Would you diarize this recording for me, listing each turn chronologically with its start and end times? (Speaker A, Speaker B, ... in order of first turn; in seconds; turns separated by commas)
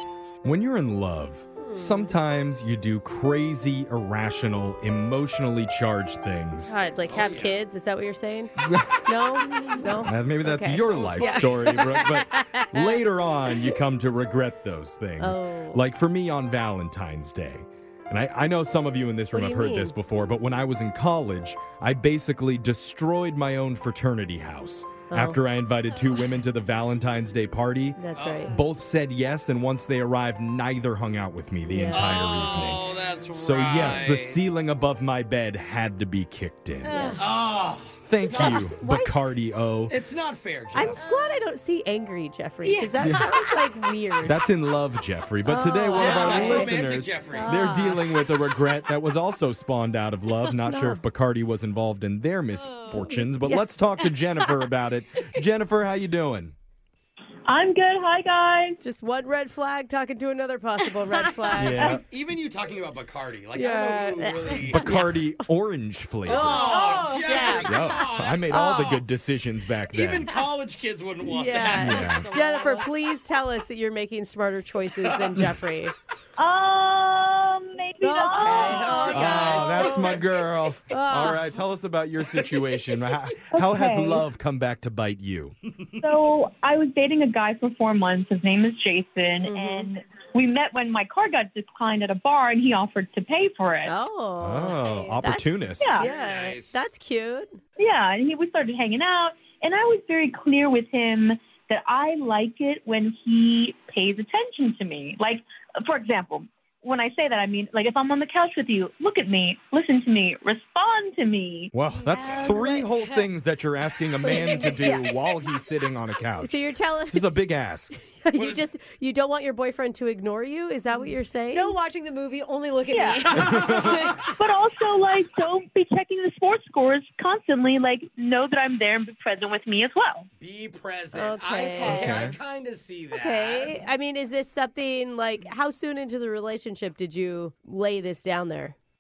Speaker A: 0.4-6.7, Speaker B: 1.6-2.2, Speaker B: 6.7-13.0, Speaker C: 7.1-7.6, Speaker A: 8.6-9.2, Speaker A: 10.1-37.2, Speaker C: 10.8-11.9, Speaker B: 15.2-15.8, Speaker B: 19.3-19.9, Speaker B: 25.1-25.4, Speaker B: 28.0-28.6, Speaker C: 28.1-28.6, Speaker B: 31.7-32.6, Speaker C: 31.9-34.4, Speaker D: 36.8-37.2, Speaker C: 37.2-38.4, Speaker A: 38.1-40.0, Speaker B: 38.3-39.3, Speaker D: 38.4-38.6, Speaker C: 39.9-41.0, Speaker B: 40.7-44.4, Speaker D: 41.0-41.4, Speaker D: 42.6-43.7, Speaker A: 43.0-43.3, Speaker A: 44.2-56.5, Speaker B: 45.4-46.8, Speaker C: 46.0-47.5, Speaker B: 47.3-48.0, Speaker B: 50.7-51.0, Speaker D: 52.6-53.2, Speaker B: 53.4-53.7, Speaker E: 57.5-58.8, Speaker B: 58.8-62.0, Speaker A: 61.5-62.0, Speaker C: 61.6-65.0, Speaker B: 63.6-65.3, Speaker D: 63.8-64.3, Speaker A: 64.5-66.8, Speaker C: 66.3-69.0, Speaker D: 66.3-67.8, Speaker B: 66.4-67.6, Speaker A: 67.5-70.3, Speaker B: 68.5-69.0, Speaker C: 69.9-72.2, Speaker B: 71.2-75.9, Speaker D: 71.5-73.0, Speaker A: 71.8-72.3, Speaker C: 75.0-75.3, Speaker E: 76.4-80.1, Speaker B: 78.0-80.0, Speaker D: 78.2-79.8, Speaker C: 78.5-80.2, Speaker A: 79.1-85.6, Speaker B: 80.9-81.4, Speaker C: 82.3-83.4, Speaker E: 83.5-84.2, Speaker C: 85.8-86.1, Speaker E: 86.0-93.9, Speaker B: 89.5-89.9, Speaker B: 93.8-97.6, Speaker A: 94.4-96.0, Speaker E: 95.8-96.1, Speaker C: 95.9-96.9, Speaker E: 97.8-112.8, Speaker A: 111.7-118.0, Speaker D: 114.4-114.9, Speaker B: 116.4-117.3, Speaker B: 118.2-121.7, Speaker C: 118.3-118.7, Speaker D: 121.5-124.3, Speaker E: 122.9-123.6, Speaker A: 123.3-124.0, Speaker C: 123.6-124.2, Speaker E: 124.3-130.3, Speaker C: 130.4-133.8, Speaker B: 131.2-132.3, Speaker A: 131.8-132.4, Speaker B: 133.1-138.8